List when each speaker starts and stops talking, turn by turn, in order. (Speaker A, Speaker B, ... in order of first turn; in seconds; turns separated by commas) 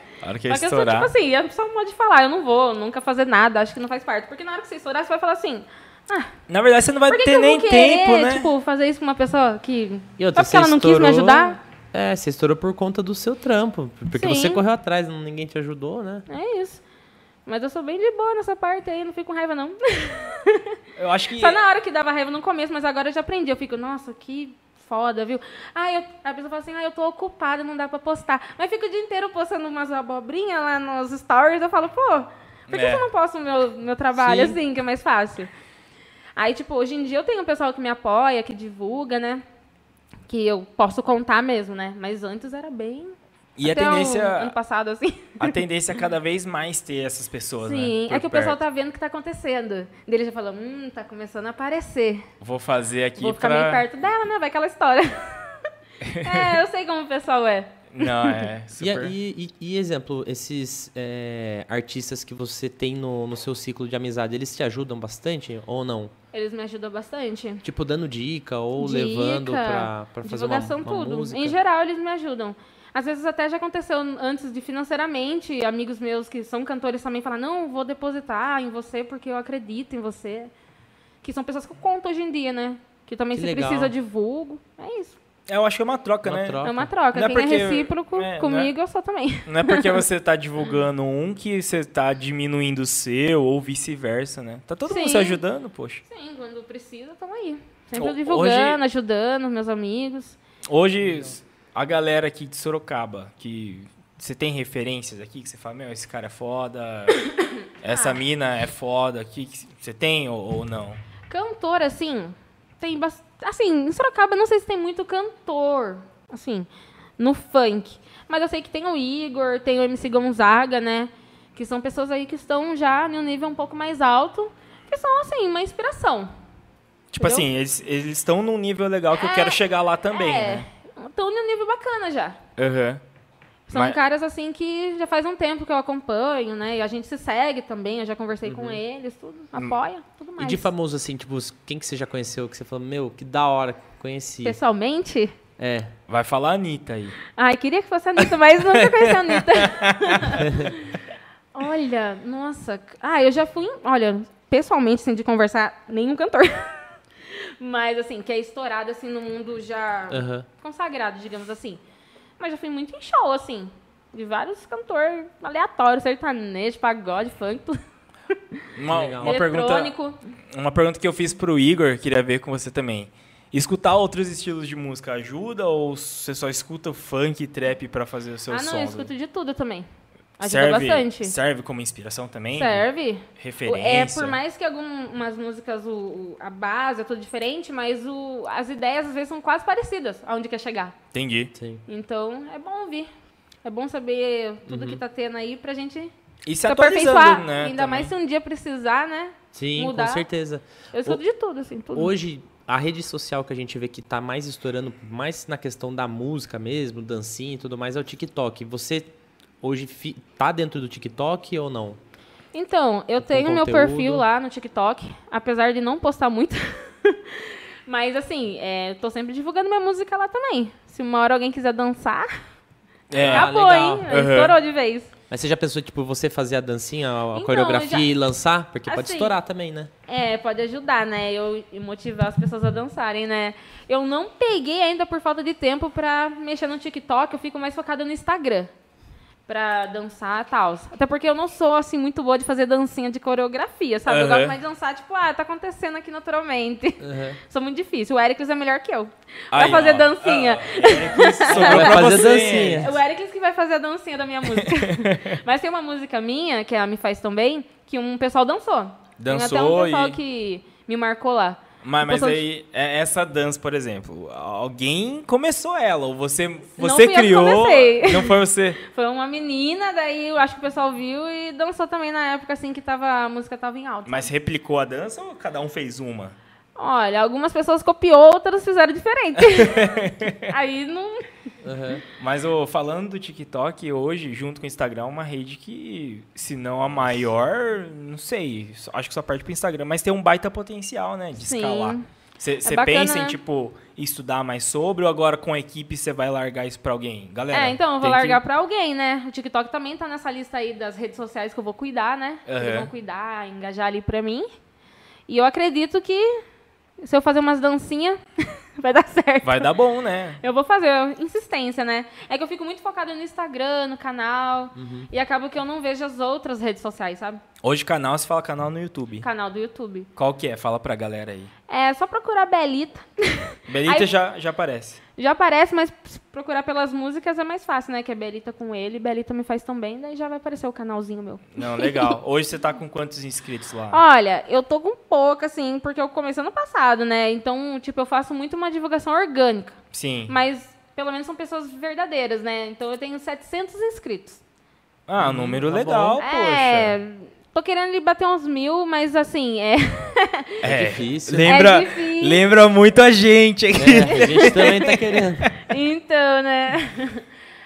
Speaker A: 0.2-1.1, Speaker B: 0.5-6.3, Speaker A: 6.5-8.5, Speaker B: 7.1-11.6, Speaker C: 10.2-16.3, Speaker B: 14.2-14.6, Speaker B: 16.3-16.8, Speaker B: 17.5-20.8, Speaker A: 21.0-21.6, Speaker B: 21.4-35.5, Speaker A: 32.7-33.1, Speaker A: 34.2-34.5, Speaker B: 36.4-39.4, Speaker B: 40.3-45.6, Speaker A: 43.6-44.5, Speaker A: 45.4-48.6, Speaker B: 47.6-52.3, Speaker A: 52.4-53.9, Speaker B: 53.2-55.6, Speaker A: 56.0-56.6, Speaker B: 56.2-58.5, Speaker A: 57.9-59.1, Speaker C: 58.8-66.1, Speaker B: 66.3-67.6, Speaker C: 67.6-71.6, Speaker B: 68.8-80.5, Speaker B: 81.2-85.2, Speaker C: 83.3-83.9, Speaker A: 85.5-86.6, Speaker C: 86.2-86.9, Speaker B: 86.6-90.0, Speaker A: 87.1-88.7, Speaker A: 89.5-96.0, Speaker B: 94.9-95.4, Speaker B: 96.1-100.4, Speaker A: 98.0-98.8, Speaker A: 100.7-107.3, Speaker C: 101.0-101.3, Speaker A: 107.8-111.0, Speaker B: 107.9-108.2, Speaker B: 111.3-116.7, Speaker B: 117.2-126.3, Speaker A: 127.1-130.7, Speaker B: 127.2-127.5, Speaker B: 129.2-132.4, Speaker A: 132.6-133.0, Speaker B: 133.7-140.7, Speaker A: 133.7-134.0, Speaker C: 138.4-138.8, Speaker C: 140.4-144.6, Speaker B: 144.4-145.3, Speaker C: 145.6-145.9, Speaker A: 146.1-147.2, Speaker B: 147.3-151.0, Speaker A: 148.7-150.4, Speaker C: 150.4-150.8, Speaker B: 151.5-161.8, Speaker C: 160.1-160.5, Speaker B: 162.4-167.8, Speaker B: 168.3-168.7, Speaker A: 168.8-169.9, Speaker C: 168.9-169.4, Speaker B: 169.2-170.2, Speaker A: 170.5-179.1, Speaker B: 178.5-179.9, Speaker B: 180.4-181.3, Speaker A: 180.4-184.4, Speaker B: 182.5-190.9, Speaker A: 191.1-191.5, Speaker C: 191.6-191.8, Speaker B: 191.9-193.1, Speaker B: 193.6-196.1, Speaker C: 194.7-195.0, Speaker A: 196.5-198.1, Speaker B: 196.6-200.3, Speaker C: 199.5-201.2, Speaker B: 200.9-202.1, Speaker C: 201.9-209.1, Speaker C: 209.6-212.0, Speaker B: 212.5-222.4, Speaker C: 213.2-214.3, Speaker A: 223.1-223.5, Speaker C: 223.2-224.1, Speaker B: 223.2-225.1, Speaker A: 224.1-224.6, Speaker C: 225.3-229.9, Speaker B: 227.3-228.1, Speaker B: 228.9-229.3, Speaker B: 230.1-238.7, Speaker B: 239.5-262.4, Speaker A: 244.1-244.6, Speaker C: 247.0-247.4, Speaker A: 249.5-252.9, Speaker C: 251.5-252.9, Speaker A: 254.5-255.4, Speaker A: 259.2-260.2, Speaker A: 261.8-268.8, Speaker B: 266.8-274.3, Speaker A: 274.1-276.4, Speaker B: 276.8-281.3, Speaker A: 279.4-280.5, Speaker C: 281.6-282.0, Speaker A: 282.2-298.4, Speaker B: 291.4-292.1, Speaker B: 292.6-293.4, Speaker B: 297.5-304.5, Speaker A: 302.5-302.9, Speaker B: 305.3-306.4, Speaker B: 307.0-309.7, Speaker A: 309.4-310.4, Speaker B: 310.4-317.4, Speaker C: 314.8-315.1, Speaker A: 317.6-319.3, Speaker B: 319.2-320.1, Speaker A: 320.2-321.5, Speaker B: 321.7-324.1, Speaker A: 323.7-325.0, Speaker B: 325.2-332.1, Speaker A: 331.6-334.0, Speaker B: 333.9-339.8, Speaker A: 339.9-340.4, Speaker B: 340.3-344.4, Speaker A: 345.1-346.9, Speaker C: 345.2-346.2, Speaker B: 346.2-350.6, Speaker A: 350.6-355.5, Speaker C: 350.6-351.6, Speaker B: 351.4-352.4, Speaker C: 353.8-355.5, Speaker B: 354.1-355.0, Speaker B: 355.5-357.2